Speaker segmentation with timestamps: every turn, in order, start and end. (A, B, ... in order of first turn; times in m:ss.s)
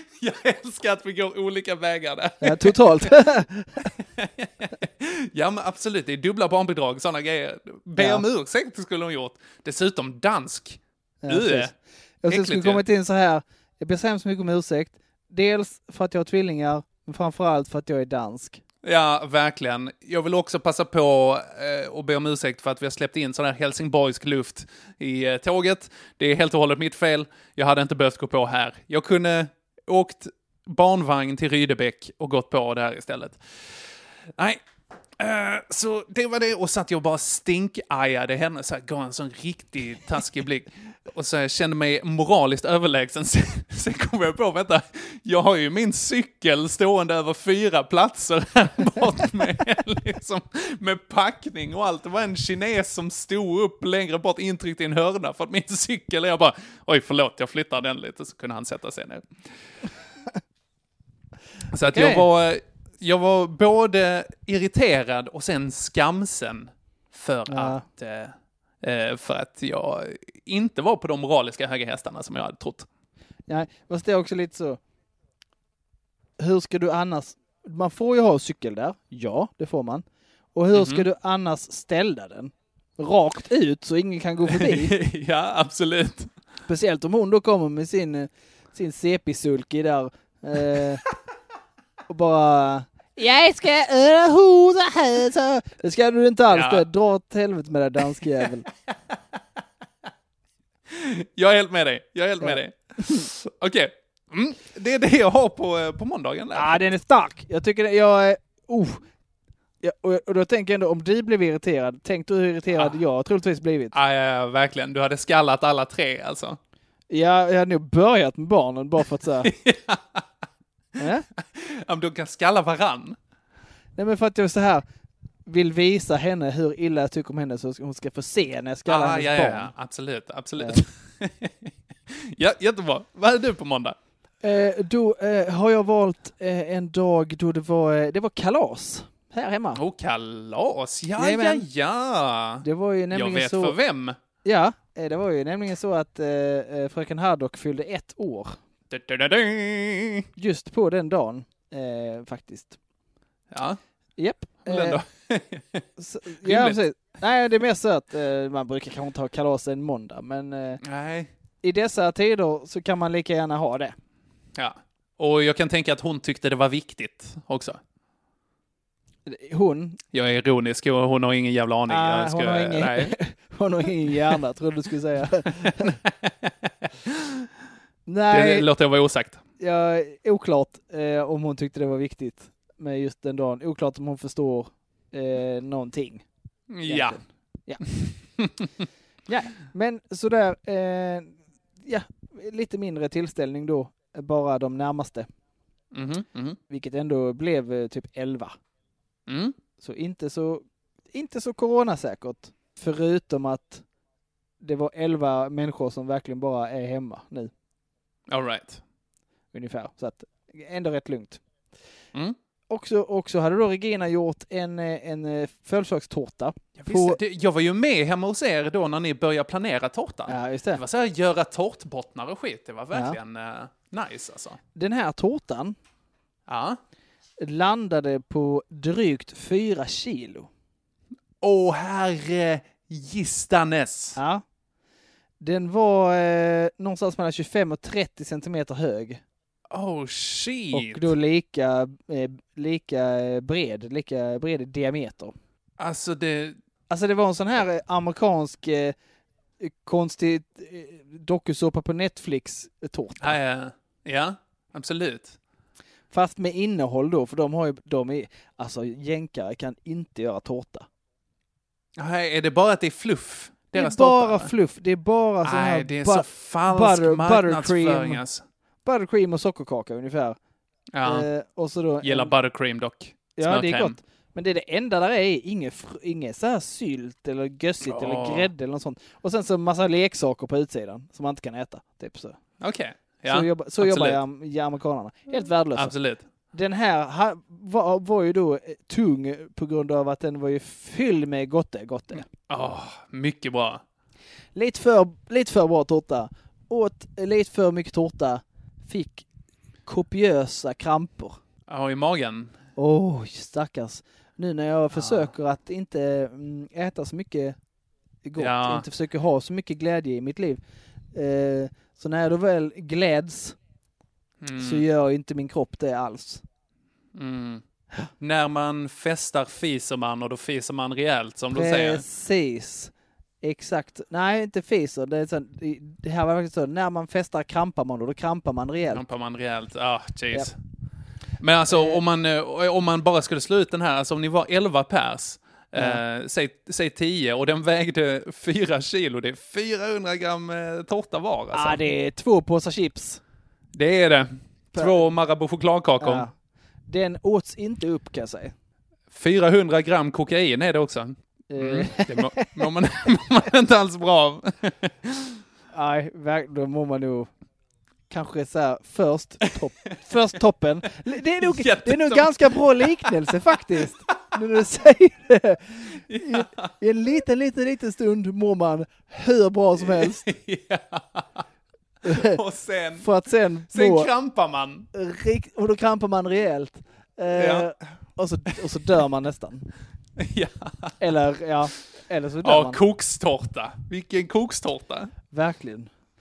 0:00.2-0:03.1 A
0:02.4-0:03.9 B
0:04.0-0:11.7 A
0:08.0-0:08.2 B
0:11.2-0:11.7 B
0:12.2-0:18.6 B
0:12.3-0:12.8 A
0:18.8-0:33.4 A
0:34.4-0:34.6 A
0:35.2-0:59.3 A
1:01.7-1:12.9 A
1:01.9-1:02.3 B
1:07.5-1:07.8 B
1:13.5-1:14.8 B
1:16.4-1:20.0 B
1:20.6-1:24.9 B
1:20.7-1:21.1 A
1:24.5-1:26.3 A
1:26.7-1:31.0 B
1:32.1-1:38.6 B
1:36.5-1:36.8 A
1:40.9-1:46.9 A
1:42.4-1:43.2 B
1:46.6-1:49.0 B
1:49.8-1:54.0 B
1:53.9-1:56.6 A
1:57.1-1:59.5 B
1:59.4-2:00.3 A
2:01.0-2:01.2 B
2:01.4-2:03.2 A
2:04.0-2:04.8 B
2:05.5-2:09.7 B
2:08.9-2:14.0 A
2:14.4-2:19.8 B
2:19.7-2:24.2 A
2:21.2-2:21.6 B
2:22.6-2:23.8 B
2:24.4-2:28.6 B
2:28.9-2:30.3 A
2:30.4-2:32.8 B
2:33.5-2:33.8 A
2:34.2-2:35.0 B
2:34.6-2:35.8 A
2:36.0-2:40.8 B
2:36.4-2:36.8 A
2:40.8-2:41.3 A
2:41.6-2:44.0 B
2:44.6-2:47.8 A
2:49.3-2:50.0 B
2:50.1-2:53.2 A
2:51.9-2:56.0 B
2:55.6-2:57.5 A
2:58.1-2:58.7 B
2:58.3-2:59.4 A
2:59.6-3:06.2 B
3:06.7-3:07.2 A
3:06.9-3:07.8 B
3:07.9-3:08.7 A
3:09.3-3:15.3 B
3:15.9-3:16.6 A
3:16.7-3:18.6 B
3:19.3-3:19.6 A
3:19.8-3:23.8 B
3:24.6-3:27.5 B
3:28.3-3:28.8 A
3:29.5-3:31.4 B
3:32.7-3:37.2 B
3:36.8-3:44.6 A
3:40.3-3:40.8 B
3:42.9-3:43.2 B
3:44.8-3:45.8 B
3:46.5-3:46.8 A
3:47.4-3:50.5 B
3:51.4-3:54.2 A
3:54.2-3:54.4 B
3:55.4-3:59.2 B
3:59.7-4:01.1 A
4:00.7-4:05.3 B
4:05.8-4:06.6 A
4:06.9-4:09.0 B
4:09.6-4:13.4 B
4:13.2-4:15.4 A
4:16.1-4:20.9 B
4:22.0-4:24.5 A
4:23.7-4:28.2 B
4:25.4-4:28.4 A
4:28.8-4:30.4 B
4:30.9-4:31.3 A
4:31.0-4:32.3 B
4:32.0-4:34.0 A
4:33.4-4:42.4 B
4:37.8-4:38.5 A
4:42.6-4:44.2 A
4:43.3-4:46.0 B
4:45.8-4:46.2 A
4:46.5-4:52.2 B
4:52.5-4:53.8 A
4:54.6-4:59.3 B
4:59.9-5:01.4 B
5:01.7-5:02.6 A
5:02.8-5:07.6 B
5:04.9-5:05.3 A
5:08.2-5:10.6 B
5:08.4-5:08.9 A
5:11.1-5:13.6 B
5:14.4-5:14.8 A
5:14.6-5:16.4 B
5:17.2-5:17.6 A
5:18.2-5:22.0 A
5:21.5-5:29.0 B
5:28.9-5:30.6 A
5:31.4-5:41.8 A
5:31.7-5:32.0 B
5:41.5-5:43.2 B
5:43.7-5:46.3 A
5:44.8-5:45.1 B
5:46.0-5:46.3 B
5:46.9-5:48.5 B
5:49.1-5:55.4 A
5:51.5-5:52.7 B
5:55.7-5:57.3 B
5:58.1-6:10.2 B
6:01.4-6:03.8 A
6:06.1-6:06.7 A
6:09.8-6:11.4 A
6:12.0-6:12.4 B
6:12.0-6:13.1 A
6:13.0-6:14.1 B
6:13.7-6:14.9 A
6:14.9-6:19.7 B
6:17.3-6:17.7 A
6:20.2-6:21.0 A
6:21.0-6:22.8 B
6:22.4-6:25.1 A
6:25.3-6:25.9 B